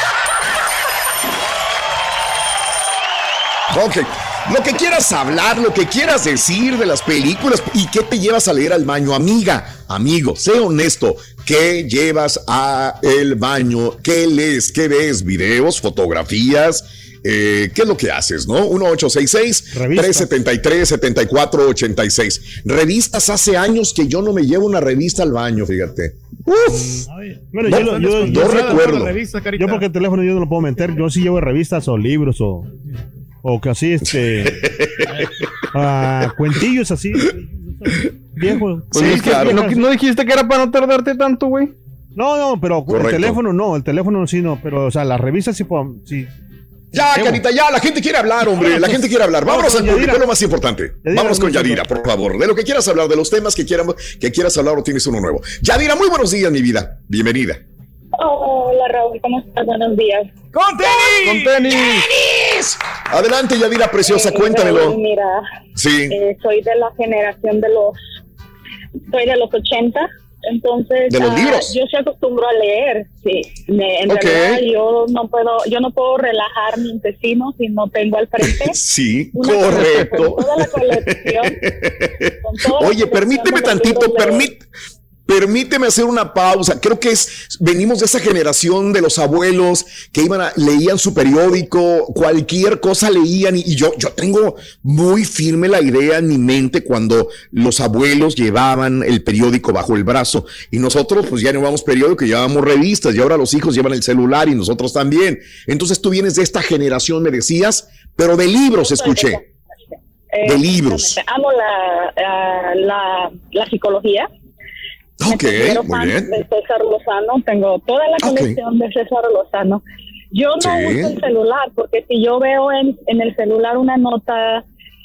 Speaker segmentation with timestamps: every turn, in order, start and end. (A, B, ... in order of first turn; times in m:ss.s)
0:03.7-0:27.0 A
0:19.7-0:20.3 B
0:26.7-0:29.0 B
0:27.2-0:29.8 C
0:27.6-0:29.1 A
0:29.6-0:32.7 B
0:33.4-0:34.7 B
0:34.5-0:35.0 A
0:35.7-0:39.8 B
0:38.9-0:39.6 A
0:38.9-0:41.7 D
0:42.2-0:46.3 B
0:42.9-0:43.4 A
0:46.9-0:57.6 A
0:47.1-0:47.4 B
0:48.6-0:48.9 B
0:49.4-0:50.2 B
0:51.0-0:51.8 B
0:58.2-1:00.3 E
1:00.5-1:01.5 C
1:01.2-1:02.1 D
1:02.4-1:05.0 A
1:04.1-1:05.4 E
1:05.8-1:06.2 A
1:06.1-1:08.0 E
1:09.1-1:18.8 E
1:11.1-1:11.7 A
1:14.1-1:14.6 A
1:18.4-1:24.6 A
1:19.3-1:21.6 E
1:22.4-1:24.5 E
1:25.3-1:49.4 A
1:48.7-1:54.3 E
1:50.4-1:51.2 A
1:55.2-1:56.4 A
1:55.2-2:04.6 E
1:58.2-1:58.6 A
2:00.6-2:01.2 A